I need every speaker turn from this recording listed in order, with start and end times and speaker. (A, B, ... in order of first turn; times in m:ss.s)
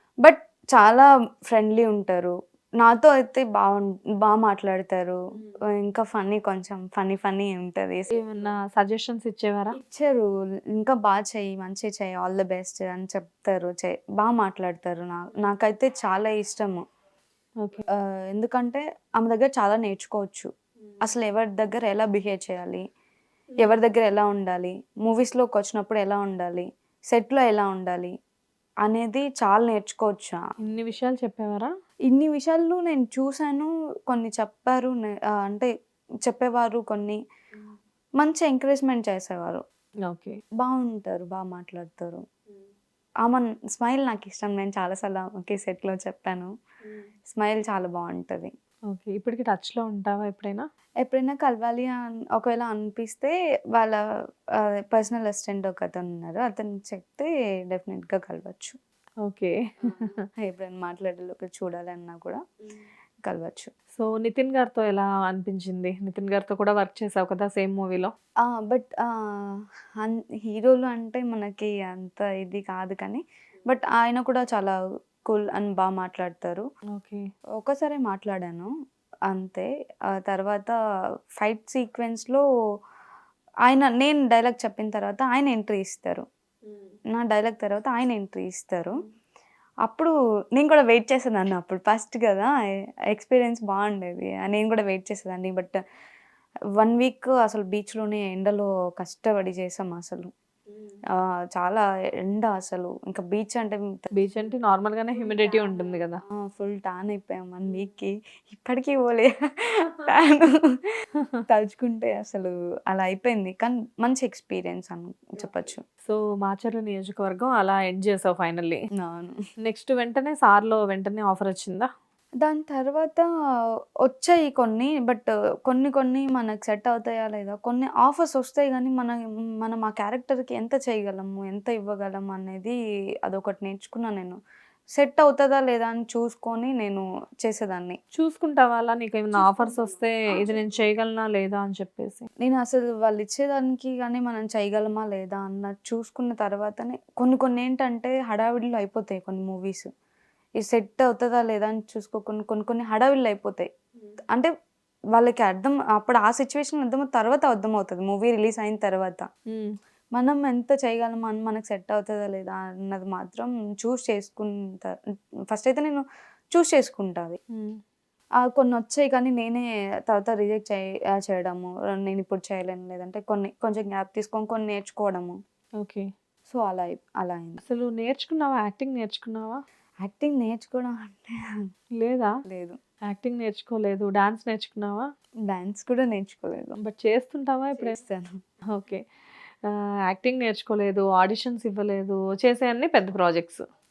0:00.2-0:05.2 A
0:05.7-0:08.2 A
0:08.1-0:09.8 B
0:09.8-0:16.8 A
0:18.0-0:20.5 A
0:21.0-0:22.8 A
0:23.6-0:28.1 A
0:28.8-0:30.4 A
0:30.6-0:31.7 B
0:32.1-0:35.7 A
0:36.2-0:37.2 A
0:38.2-0:39.6 A
0:40.1-0:40.4 B
0:40.6-0:42.2 A
0:43.2-0:46.5 A
0:47.3-0:48.5 A
0:48.9-0:50.7 B
0:51.0-0:54.0 A
0:54.6-0:58.8 A
0:59.2-1:00.2 B
1:00.4-1:02.4 A
1:03.2-1:03.7 A
1:04.0-1:08.1 B
1:08.4-1:14.8 A
1:15.3-1:16.6 A
1:16.9-1:17.3 B
1:17.6-1:18.7 A
1:19.3-1:20.8 A
1:21.4-1:22.4 A
1:23.7-1:26.2 A
1:27.1-1:29.0 A
1:29.8-1:32.5 A
1:33.1-1:35.8 A
1:36.8-1:40.3 A
1:41.1-1:44.1 A
1:44.1-1:46.2 B
1:46.3-1:50.9 A
1:51.5-1:55.8 A
1:56.0-1:58.8 B
1:59.0-1:59.4 A
1:59.6-2:01.9 B
2:02.4-2:03.3 A
2:04.0-2:14.4 A
2:15.0-2:18.0 A
2:18.2-2:22.3 B
2:19.4-2:19.9 A
2:22.4-2:29.9 A
2:30.6-2:33.7 A
2:35.1-2:39.2 A
2:39.5-2:39.8 B
2:40.2-2:45.0 A
2:45.5-2:46.0 A
2:46.5-2:47.4 A
2:47.5-2:47.8 B
2:48.4-2:55.4 A
2:55.8-2:56.1 B
2:56.5-2:57.6 A
2:57.6-2:59.6 B
3:00.0-3:01.4 A
3:02.0-3:02.3 B
3:02.5-3:02.8 A
3:03.1-3:05.1 B
3:05.5-3:06.8 A
3:06.8-3:08.0 B
3:07.8-3:08.4 A
3:08.7-3:09.0 B
3:09.6-3:13.6 B